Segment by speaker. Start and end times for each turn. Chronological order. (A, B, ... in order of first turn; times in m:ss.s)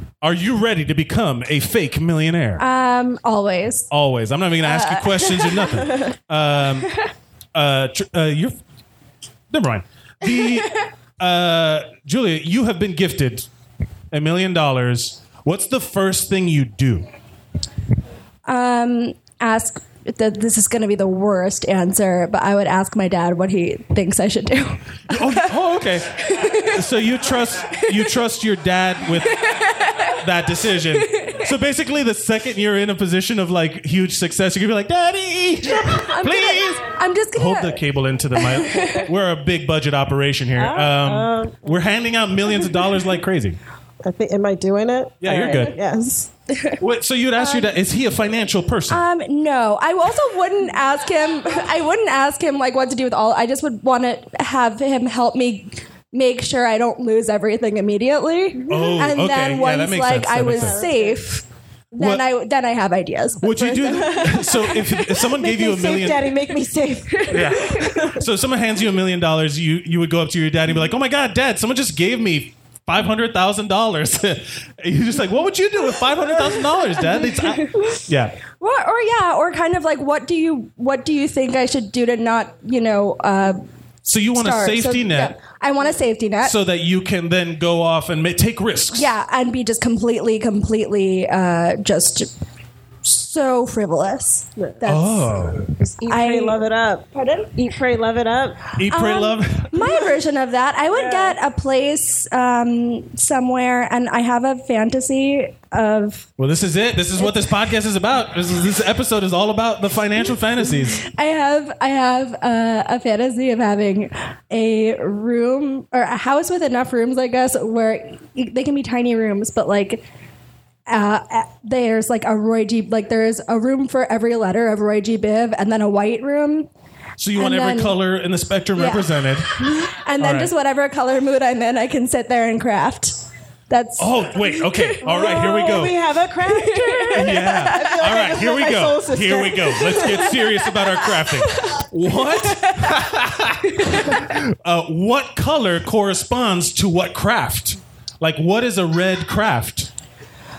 0:00.2-0:02.6 A
0:02.6-0:03.9 B
0:03.9-0:06.9 A
0:04.6-0:05.7 B
0:07.6-0:08.6 A
0:09.5-0:13.5 A
0:14.1-0:17.0 A
0:18.4-0:25.5 B
0:25.1-0:29.4 A
0:26.3-0:26.6 B
0:29.4-0:30.0 B
0:30.2-0:43.6 A
0:35.8-0:37.8 B
0:38.4-0:39.0 B
0:40.6-0:41.7 C
0:44.0-0:46.3 C
0:45.2-0:45.7 A
0:46.8-0:49.0 A
0:47.4-0:47.7 B
0:48.9-1:04.4 B
0:58.7-1:00.8 A
1:00.5-1:01.2 C
1:02.0-1:02.2 A
1:03.4-1:06.3 A
1:04.0-1:04.7 C
1:05.3-1:08.2 C
1:07.3-1:18.4 A
1:17.4-1:17.8 B
1:18.6-1:23.6 B
1:24.0-1:25.4 A
1:24.3-1:26.6 B
1:26.4-1:29.1 A
1:28.9-1:32.3 B
1:33.0-1:35.4 B
1:34.8-1:35.7 A
1:35.8-1:37.1 C
1:36.1-1:36.6 B
1:37.1-1:37.7 B
1:37.6-1:38.6 C
1:38.8-1:39.7 A
1:38.9-1:46.3 B
1:40.9-1:41.4 C
1:46.4-1:51.0 A
1:51.0-2:00.0 B
2:00.9-2:06.7 B
2:07.2-2:09.5 A
2:07.4-2:08.0 B
2:08.8-2:09.1 B
2:09.6-2:13.2 B
2:10.2-2:10.5 A
2:13.7-2:15.3 B
2:14.0-2:16.0 A
2:15.0-2:20.7 C
2:16.5-2:18.1 B
2:17.2-2:23.6 A
2:24.2-2:29.9 A